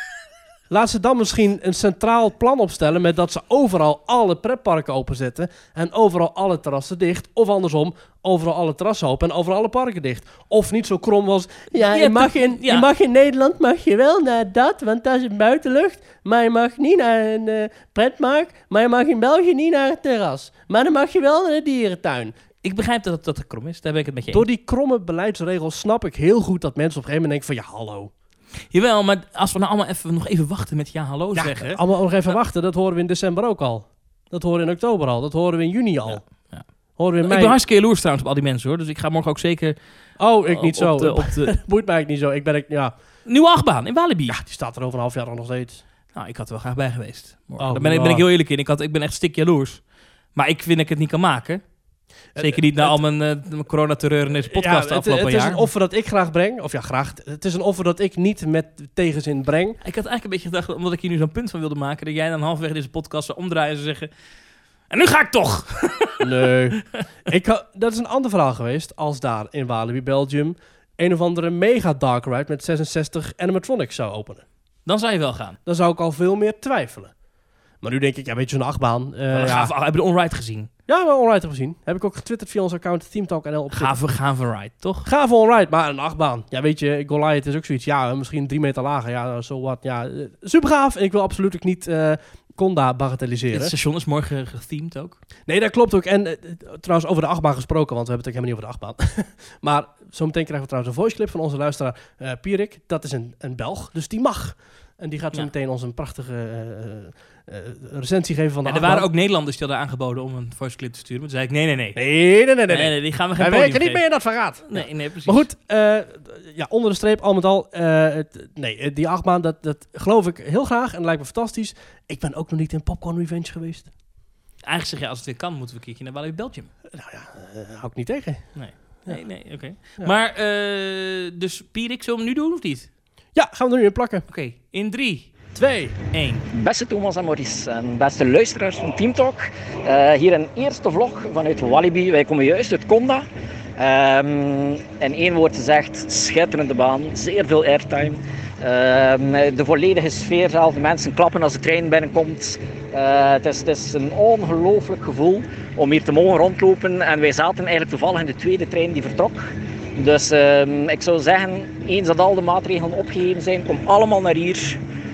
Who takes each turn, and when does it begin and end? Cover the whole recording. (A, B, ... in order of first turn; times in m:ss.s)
0:00.7-0:22.3 A
0:11.7-0:12.9 B
0:22.6-0:24.4 B
0:24.3-0:28.1 A
0:28.7-0:31.8 B
0:31.4-0:36.2 A
0:36.1-0:36.6 B
0:37.0-0:37.6 A
0:37.2-0:39.8 B
0:40.2-0:42.9 A
0:40.4-0:41.5 B
0:43.2-0:44.4 B
0:44.3-0:45.8 A
0:46.1-0:49.8 B
0:47.6-0:48.2 A
0:50.3-0:51.6 B
0:52.3-0:53.0 A
0:52.4-0:55.7 B
0:54.5-0:59.8 A
0:59.8-1:04.1 B
1:04.9-1:07.0 B
1:06.2-1:14.4 A
1:14.8-1:15.6 B
1:15.6-1:17.1 A
1:17.8-1:19.7 A
1:19.3-1:20.7 B
1:20.9-1:24.0 A
1:23.7-1:25.0 B
1:25.0-1:33.7 A
1:33.5-1:35.2 B
1:35.4-1:49.1 A
1:48.6-1:52.0 B
1:51.9-2:03.9 A
1:52.7-1:54.0 B
1:54.6-1:55.4 B
2:04.6-2:06.7 B
2:06.9-2:08.5 A
2:08.6-2:12.9 B
2:13.3-2:14.2 A
2:14.3-2:15.3 B
2:15.5-2:16.0 A
2:16.1-2:16.4 B
2:16.5-2:23.2 C
2:23.8-2:39.4 C
2:40.0-2:44.8 C